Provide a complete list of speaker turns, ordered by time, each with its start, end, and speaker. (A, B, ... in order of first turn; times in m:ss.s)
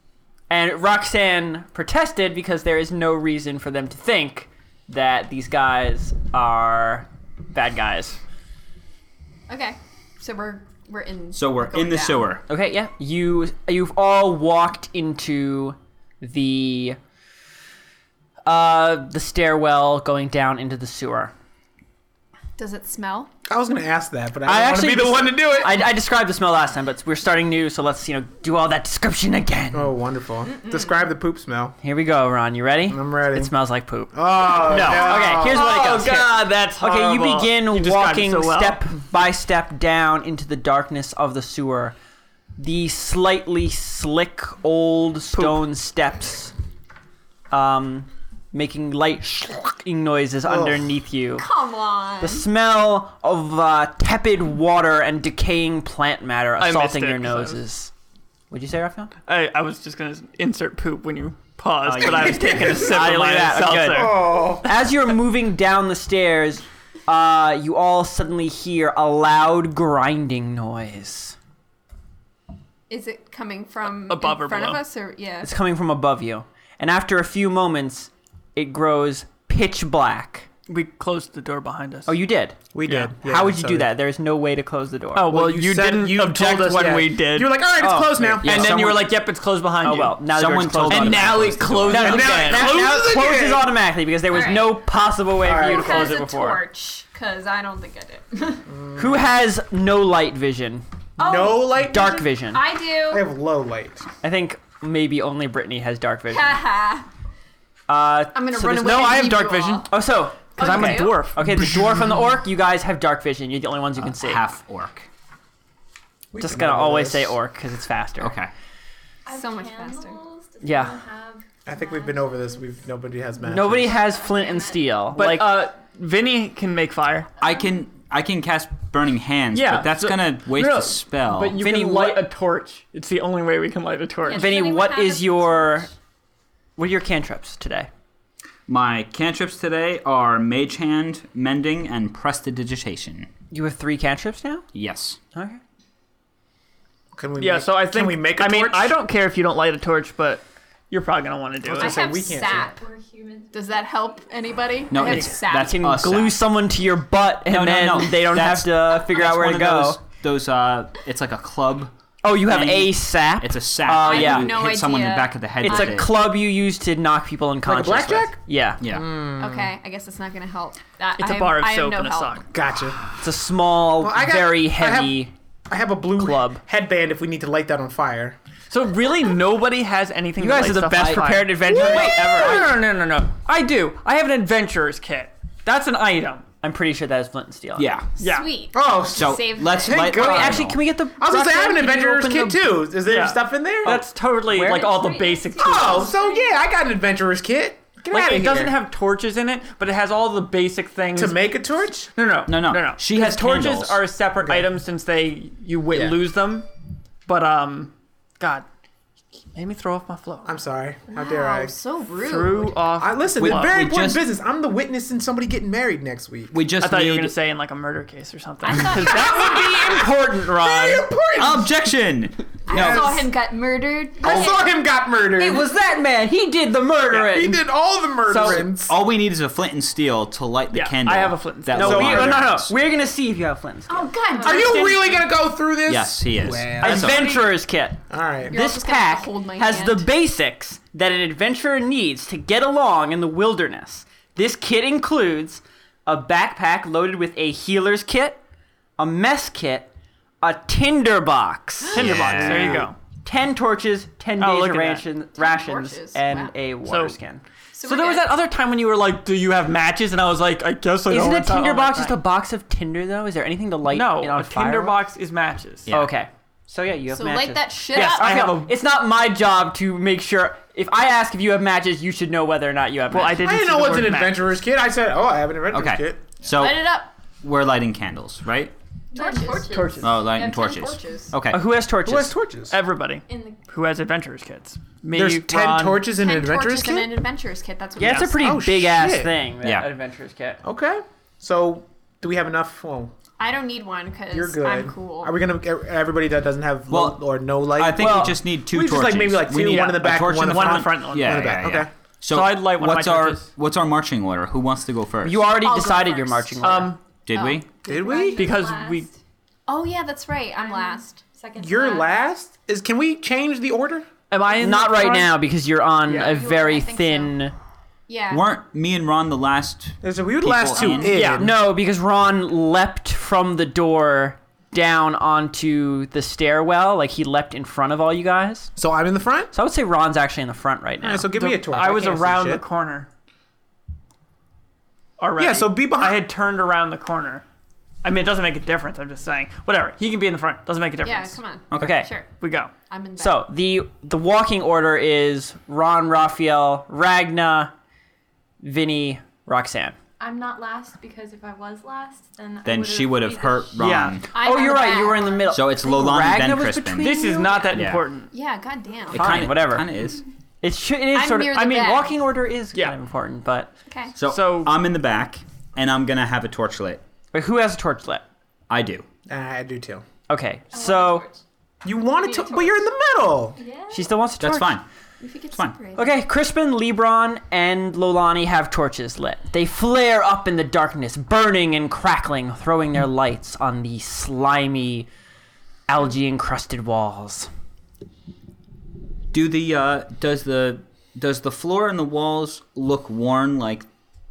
0:00.5-0:08.2 A
0:09.5-0:12.4 B
0:11.3-0:12.4 C
0:12.5-0:17.0 A
0:18.4-0:21.3 A
0:22.6-0:23.3 B
0:23.5-0:25.9 D
0:24.4-0:29.9 A
0:29.7-0:31.7 D
0:30.7-0:30.9 E
0:31.8-0:41.9 A
0:32.9-0:33.5 D
0:34.1-0:35.7 D
0:34.7-0:38.9 F
0:42.6-0:46.5 A
0:45.3-0:45.6 F
0:47.5-0:51.4 A
0:50.4-0:50.8 D
0:51.4-0:52.5 B
0:52.2-0:57.9 A
0:56.6-0:57.6 F
0:58.5-0:59.1 A
0:59.2-1:04.6 F
1:01.9-1:02.5 C
1:01.9-1:11.4 A
1:02.5-1:02.7 D
1:03.9-1:04.7 D
1:12.9-1:15.5 B
1:14.1-1:14.8 F
1:15.4-1:20.5 A
1:20.7-1:22.2 F
1:22.1-1:22.6 A
1:22.7-1:23.9 D
1:22.8-1:23.1 F
1:23.2-1:25.3 A
1:25.1-1:27.7 F
1:25.3-1:29.0 D
1:27.8-1:28.7 A
1:28.4-1:28.9 C
1:28.4-1:30.3 F
1:29.8-1:36.6 A
1:30.3-1:32.4 C
1:30.9-1:32.8 F
1:32.0-1:33.7 D
1:34.3-1:34.8 B
1:35.4-1:36.1 D
1:35.5-1:38.6 B
1:38.6-1:39.3 D
1:39.0-1:40.8 A
1:41.2-1:41.9 B
1:41.2-1:42.3 D
1:41.8-1:42.6 A
1:42.5-1:43.3 B
1:43.1-1:44.0 D
1:44.2-1:46.6 A
1:46.3-1:47.1 B
1:47.9-1:54.4 A
1:48.3-1:49.9 B
1:48.8-1:49.8 F
1:50.6-1:51.2 B
1:50.6-1:51.6 F
1:54.0-1:55.1 C
1:56.3-1:57.4 D
1:56.4-1:58.3 A
1:58.2-1:58.5 C
1:59.2-2:02.7 E
1:59.3-2:00.2 B
2:00.6-2:01.0 A
2:01.6-2:04.0 D
2:03.5-2:05.6 A
2:03.8-2:05.0 E
2:05.1-2:07.3 F
2:07.4-2:11.6 C
2:09.5-2:14.5 F
2:11.6-2:12.2 A
2:14.2-2:15.9 B
2:14.3-2:15.9 A
2:16.8-2:17.9 A
2:18.7-2:23.3 C
2:23.5-2:24.7 A
2:24.7-2:25.2 C
2:25.3-2:25.6 A
2:27.1-2:28.9 D
2:27.4-2:32.1 F
2:31.6-2:32.7 D
2:31.8-2:32.7 B
2:32.5-2:34.2 E
2:33.5-2:35.8 B
2:34.9-2:36.4 C
2:35.0-2:35.3 F
2:35.4-2:40.0 A
2:37.4-2:46.1 C
2:42.2-2:44.6 A
2:44.0-2:45.9 B
2:45.6-2:48.8 A
2:47.6-2:49.7 D
2:48.8-2:49.1 C
2:49.4-2:52.4 B
2:51.2-2:52.5 F
2:52.5-2:53.0 D
2:53.2-2:55.3 A
2:54.0-2:58.4 D
2:56.2-2:56.6 A
2:58.7-3:06.5 F
3:00.4-3:02.8 A
3:06.6-3:07.9 A
3:07.8-3:08.1 C
3:08.2-3:08.6 F
3:08.2-3:10.6 B
3:08.7-3:10.6 D
3:09.1-3:10.8 C
3:10.1-3:12.7 A
3:11.2-3:14.0 D
3:13.0-3:16.1 F
3:13.8-3:15.1 A
3:14.6-3:16.7 E
3:15.6-3:18.8 D
3:18.0-3:21.5 F
3:21.1-3:22.1 D
3:22.1-3:26.7 F
3:22.4-3:24.0 C
3:24.4-3:24.7 D
3:27.2-3:28.6 F
3:29.5-3:30.6 F
3:30.4-3:31.7 D
3:31.1-3:32.8 B
3:32.2-3:33.9 F
3:33.0-3:36.5 D
3:33.4-3:34.2 C
3:36.5-3:37.4 C
3:36.8-3:41.1 F
3:38.6-3:39.7 B
3:39.1-3:41.7 D
3:41.3-3:43.3 C
3:42.7-3:44.7 B
3:42.7-3:43.3 D
3:44.2-3:45.7 D
3:45.4-3:47.6 A
3:47.1-3:49.0 D
3:48.3-3:48.5 A
3:48.3-3:48.6 F
3:48.8-3:52.7 C
3:50.7-3:52.6 F
3:51.7-3:54.1 A
3:51.8-3:52.4 D
3:53.9-3:55.2 B
3:54.3-3:54.9 E
3:54.4-3:57.4 D
3:55.9-3:57.4 C
3:56.8-4:08.4 A
3:58.1-3:58.6 D
3:58.4-4:00.1 B
4:09.0-4:09.9 A
4:10.4-4:17.4 A
4:11.8-4:12.3 B
4:11.9-4:12.9 C
4:11.9-4:13.0 F
4:14.4-4:15.1 F
4:15.3-4:16.5 B
4:16.8-4:17.2 F
4:17.7-4:18.3 B
4:17.8-4:22.2 F
4:21.1-4:25.0 A
4:23.8-4:25.9 F
4:25.8-4:26.2 C
4:25.9-4:33.4 A
4:27.1-4:28.5 B
4:27.9-4:28.7 F
4:33.1-4:34.6 F
4:33.4-4:36.2 D
4:35.7-4:38.7 C
4:36.5-4:37.1 B
4:39.1-4:40.1 E
4:39.1-4:41.3 B
4:39.7-4:40.3 F
4:40.0-4:41.6 C
4:41.5-4:42.3 A
4:42.0-4:42.8 D
4:42.7-4:46.1 F
4:43.3-4:43.6 E
4:45.1-4:47.3 D
4:46.1-4:48.4 B
4:48.0-4:50.6 A
4:48.0-4:49.3 D
4:49.6-4:49.9 C
4:50.6-4:53.1 D
4:53.4-4:55.4 B
4:54.3-5:01.9 D
4:56.9-4:57.2 C
4:57.7-5:05.4 C
4:58.0-4:58.4 A
4:59.6-5:01.6 F
5:02.3-5:03.5 F
5:05.2-5:07.0 A
5:05.5-5:08.4 B
5:06.6-5:07.0 F
5:07.2-5:07.7 C
5:07.8-5:08.4 D
5:07.9-5:09.2 E
5:08.4-5:09.1 F
5:09.7-5:11.2 B
5:10.5-5:12.2 E
5:11.6-5:14.1 D
5:14.3-5:15.4 F
5:14.6-5:17.5 A
5:16.1-5:17.2 E
5:16.4-5:17.3 B
5:18.1-5:18.5 B
5:18.3-5:21.2 C
5:20.0-5:21.5 D
5:21.0-5:21.4 F
5:21.2-5:28.7 A
5:28.8-5:29.5 D
5:29.5-5:31.3 A
5:31.0-5:32.6 D
5:31.3-5:33.1 F
5:35.2-5:37.4 F
5:35.4-5:36.2 D
5:38.0-5:41.4 F
5:41.0-5:42.3 B
5:41.7-5:42.0 C
5:41.8-5:42.1 A
5:42.4-5:42.7 F
5:42.9-5:43.5 B
5:43.2-5:47.7 A
5:48.6-5:50.0 A
5:50.2-5:53.8 E
5:52.6-5:54.3 C
5:53.8-5:54.2 F
5:54.3-5:55.5 B
5:54.4-5:57.6 A
5:55.5-5:58.0 C
5:57.0-5:58.3 F
5:58.3-5:59.5 B
5:59.1-6:00.2 C
5:59.1-5:59.9 A
6:00.6-6:03.7 A
6:01.1-6:02.1 B
6:03.9-6:04.1 B
6:04.2-6:07.0 C
6:04.2-6:04.8 F
6:07.3-6:08.2 A
6:08.7-6:09.0 C
6:09.3-6:10.0 D
6:10.3-6:11.2 A
6:10.7-6:11.4 E
6:11.8-6:13.6 D
6:12.0-6:12.8 E
6:13.5-6:14.1 E
6:13.9-6:14.8 A
6:14.4-6:14.8 C
6:15.2-6:16.2 B
6:15.5-6:15.8 C
6:16.0-6:25.1 A
6:25.9-6:27.5 A
6:29.3-6:33.8 C